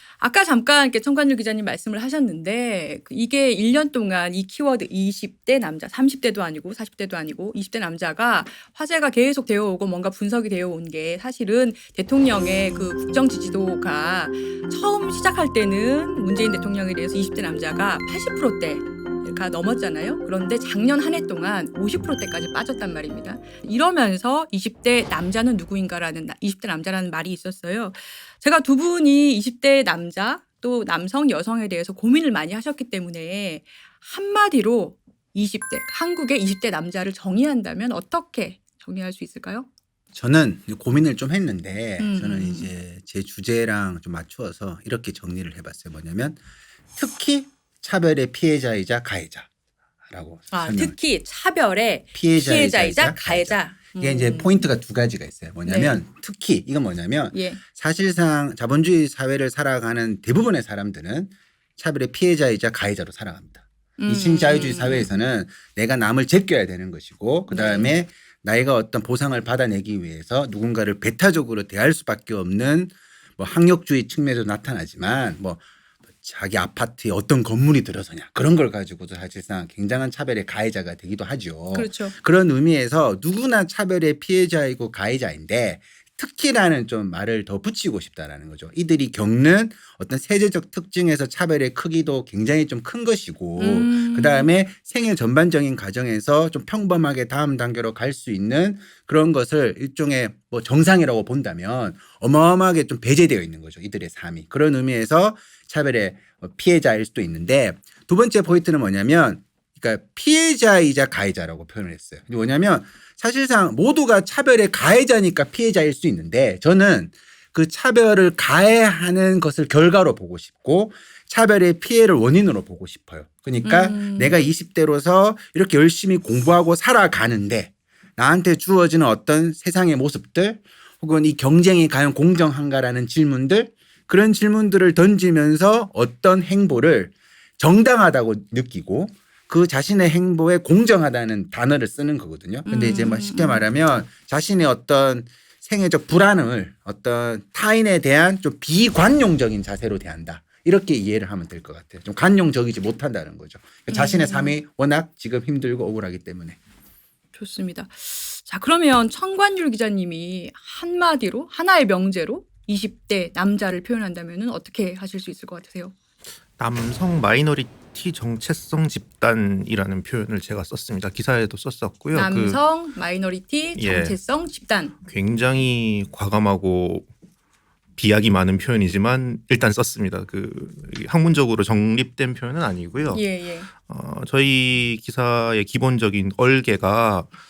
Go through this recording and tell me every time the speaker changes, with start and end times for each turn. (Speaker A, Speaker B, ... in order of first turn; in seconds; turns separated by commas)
Speaker A: 0.2-39.7, Speaker B: 40.1-46.4, Speaker A: 42.0-42.7, Speaker B: 47.0-49.5, Speaker B: 50.1-51.0, Speaker A: 50.5-54.6, Speaker B: 52.1-75.6, Speaker A: 55.6-56.0, Speaker A: 57.3-57.6, Speaker A: 64.0-65.2, Speaker A: 67.5-68.0, Speaker B: 76.2-156.6, Speaker A: 81.7-82.1, Speaker A: 93.6-94.5, Speaker A: 123.6-124.4, Speaker A: 142.7-143.7, Speaker A: 153.9-154.6, Speaker A: 157.3-165.9, Speaker C: 166.6-172.6, Speaker A: 172.1-174.9, Speaker C: 173.8-174.2, Speaker C: 175.0-177.1, Speaker C: 178.0-187.3, Speaker A: 183.1-183.7